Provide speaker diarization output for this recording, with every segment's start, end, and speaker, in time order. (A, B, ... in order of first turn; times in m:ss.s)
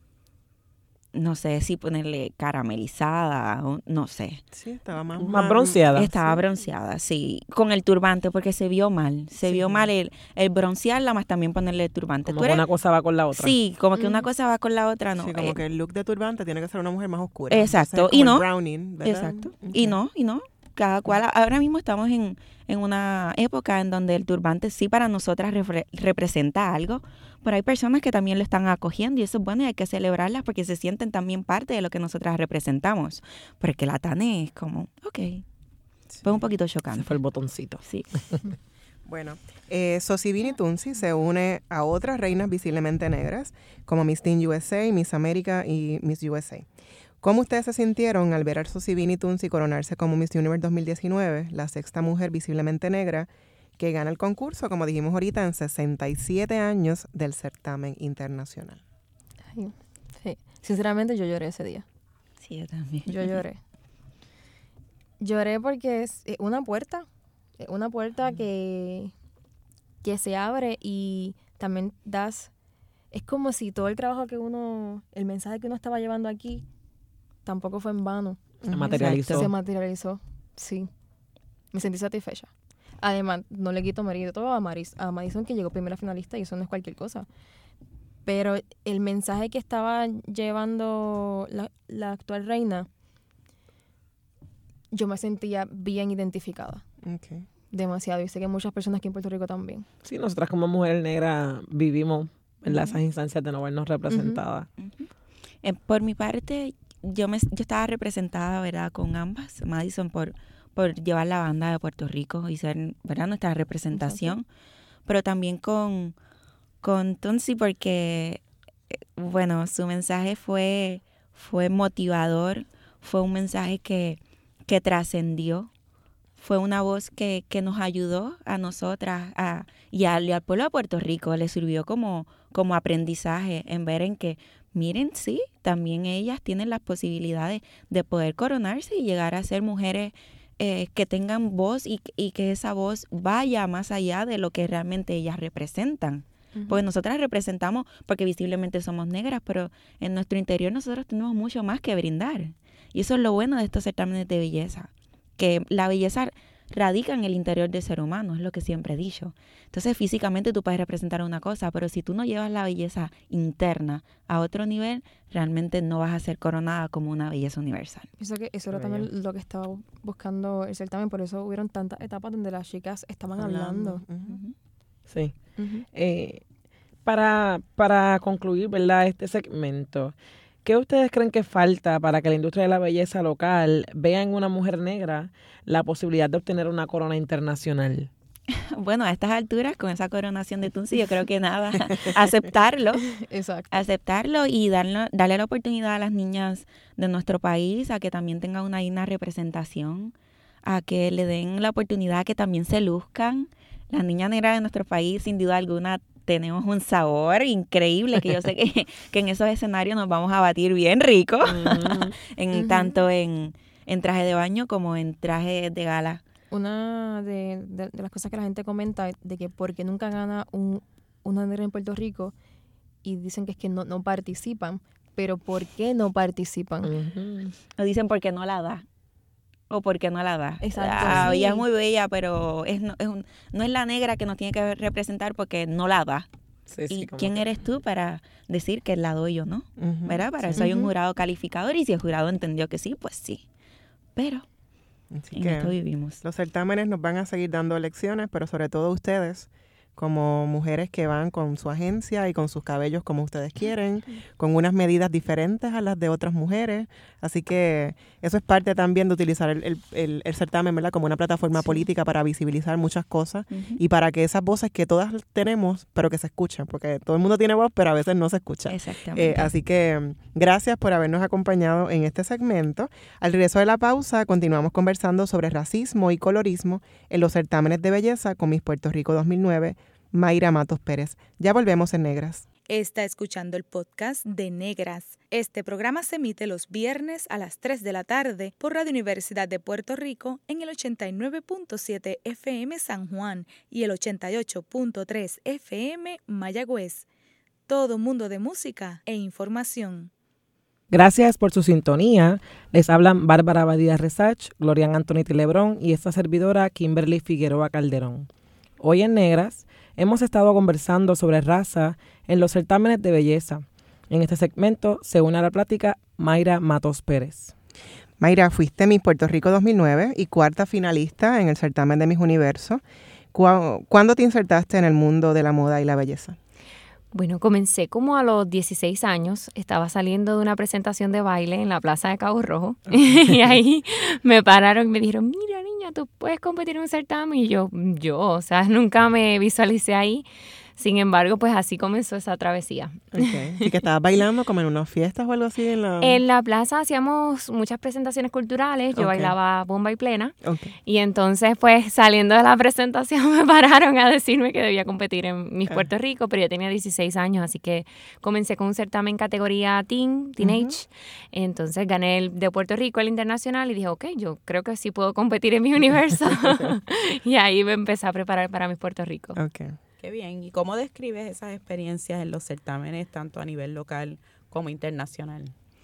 0:01.1-0:04.4 A
0:04.5-0:05.9 B
0:05.2-0:06.1 C
0:05.9-0:12.6 A
0:09.4-0:09.8 B
0:12.3-0:13.6 C
0:13.3-0:15.6 A
0:14.0-0:14.2 D
0:15.2-0:20.0 B
0:17.5-0:18.4 A
0:19.0-0:35.4 A
0:36.2-0:37.1 A
0:36.9-0:38.4 C
0:39.0-0:46.7 B
0:47.2-0:58.8 B
0:59.5-1:01.8 D
1:02.4-1:03.4 A
1:03.1-1:03.6 D
1:05.2-1:07.1 D
1:07.6-1:09.1 D
1:10.0-1:12.5 D
1:13.1-1:16.6 D
1:17.4-1:20.9 D
1:18.6-1:18.9 B
1:18.7-1:19.5 C
1:18.9-1:19.5 A
1:21.7-1:22.5 D
1:23.0-1:27.2 D
1:28.2-1:32.9 D
1:34.9-1:36.8 D
1:37.0-1:37.4 B
1:37.7-1:39.8 D
1:40.0-1:44.7 C
1:42.6-1:43.0 A
1:44.1-1:44.4 D
1:44.8-1:45.1 A
1:45.6-1:54.4 A
1:53.9-1:54.3 D
1:55.1-1:56.1 A
1:56.8-2:05.7 A
2:06.4-2:48.1 A
2:26.5-2:26.8 D
2:48.2-2:54.0 D
2:48.7-2:49.1 C
2:53.4-2:54.4 B
2:54.3-2:54.5 A
2:55.1-2:55.3 C
2:55.6-2:55.8 D
2:55.9-2:56.4 C
2:57.0-3:08.1 C
3:08.5-3:13.1 A
3:13.1-3:13.8 D
3:13.7-3:20.1 A
3:20.6-3:36.2 A
3:31.4-3:32.2 C
3:32.5-3:32.9 D
3:36.5-3:42.3 D
3:43.0-3:46.9 D
3:46.8-3:47.5 C
3:47.8-3:48.8 A
3:49.7-3:56.3 A
3:50.6-3:51.6 D
3:51.0-3:51.3 C
3:56.7-3:57.5 C
3:56.9-4:03.4 A
3:59.8-4:00.7 B
4:00.6-4:00.9 D
4:04.2-4:04.4 A
4:05.1-4:42.4 B
4:05.3-4:06.2 A
4:23.5-4:23.8 A
4:28.7-4:29.5 A
4:42.7-4:57.0 E
4:57.7-5:00.1 E
5:00.9-5:08.3 C
5:08.8-5:17.5 C
5:18.2-5:22.8 B
5:23.3-5:26.4 B
5:27.1-5:40.2 F
5:40.8-5:43.7 F
5:43.1-5:46.2 B
5:46.0-5:50.3 F
5:48.9-5:49.3 B
5:50.4-5:50.7 B
5:50.8-6:09.4 F
6:00.4-6:00.7 B
6:09.3-6:09.8 B
6:10.0-6:15.5 G